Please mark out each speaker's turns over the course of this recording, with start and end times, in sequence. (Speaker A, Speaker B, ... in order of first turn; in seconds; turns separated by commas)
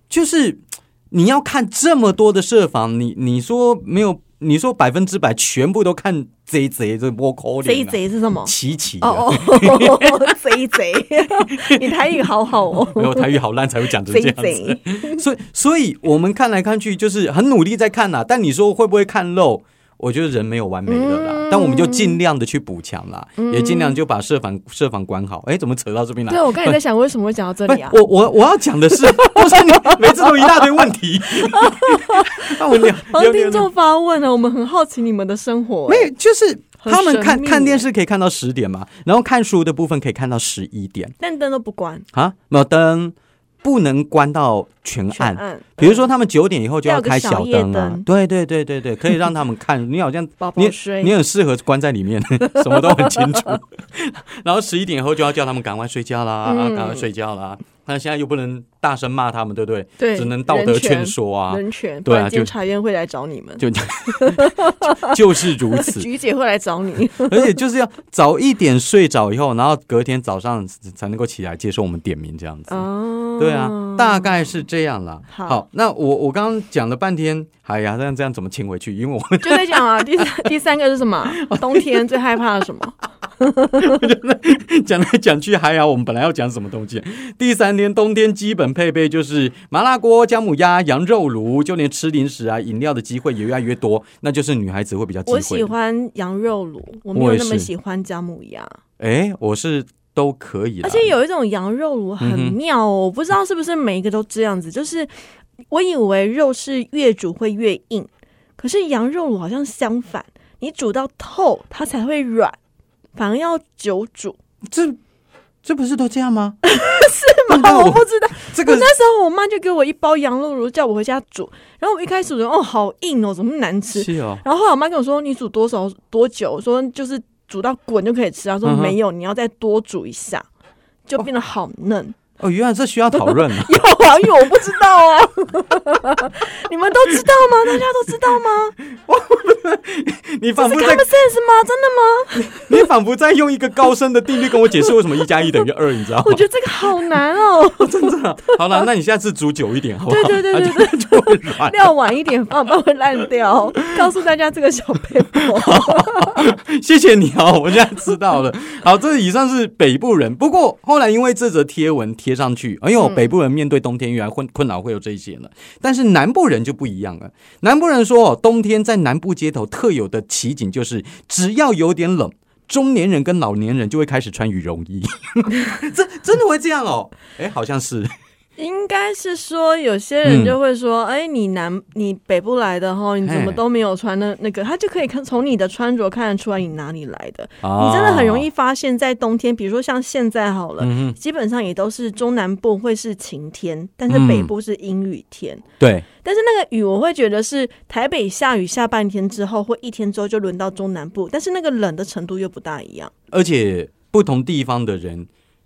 Speaker A: 0.1-10.4, Speaker B: 7.6-13.3, Speaker A: 11.4-12.2, Speaker A: 12.8-26.8, Speaker B: 14.0-15.2, Speaker B: 20.9-22.2, Speaker B: 23.4-24.0, Speaker B: 26.3-28.0, Speaker A: 27.7-33.7, Speaker B: 29.0-36.1, Speaker A: 35.9-41.1, Speaker B: 36.8-37.9, Speaker B: 41.2-42.0, Speaker A: 42.1-62.5, Speaker B: 45.1-46.1, Speaker B: 46.8-48.0, Speaker B: 50.4-51.1, Speaker B: 52.6-53.4, Speaker B: 56.4-57.0, Speaker B: 60.0-67.5, Speaker A: 63.6-66.1, Speaker A: 67.2-72.8, Speaker B: 72.7-74.4, Speaker A: 73.4-80.4, Speaker B: 75.3-75.6, Speaker B: 79.4-84.0, Speaker A: 81.3-82.2, Speaker A: 83.7-95.7, Speaker B: 95.3-98.7, Speaker A: 97.1-97.7, Speaker A: 99.0-101.1, Speaker B: 100.8-105.1, Speaker A: 102.2-102.6, Speaker B: 105.7-112.5, Speaker B: 113.1-114.4, Speaker A: 114.7-115.0, Speaker A: 115.6-116.6, Speaker B: 116.6-130.4, Speaker A: 117.5-118.9, Speaker A: 123.9-124.4, Speaker A: 128.6-128.9, Speaker B: 131.1-132.2, Speaker A: 132.4-133.8, Speaker B: 133.2-138.7, Speaker A: 138.9-141.1, Speaker B: 140.6-142.8, Speaker A: 142.3-146.4, Speaker B: 144.5-145.4, Speaker B: 146.2-148.8, Speaker A: 147.8-151.9, Speaker B: 150.1-156.4, Speaker A: 155.4-178.1, Speaker B: 163.0-163.3, Speaker B: 178.6-195.6, Speaker A: 180.2-180.5, Speaker A: 183.2-183.6, Speaker A: 187.6-188.4, Speaker A: 190.8-191.2, Speaker A: 194.1-194.5, Speaker A: 195.8-196.1, Speaker B: 196.2-203.1, Speaker A: 203.3-205.3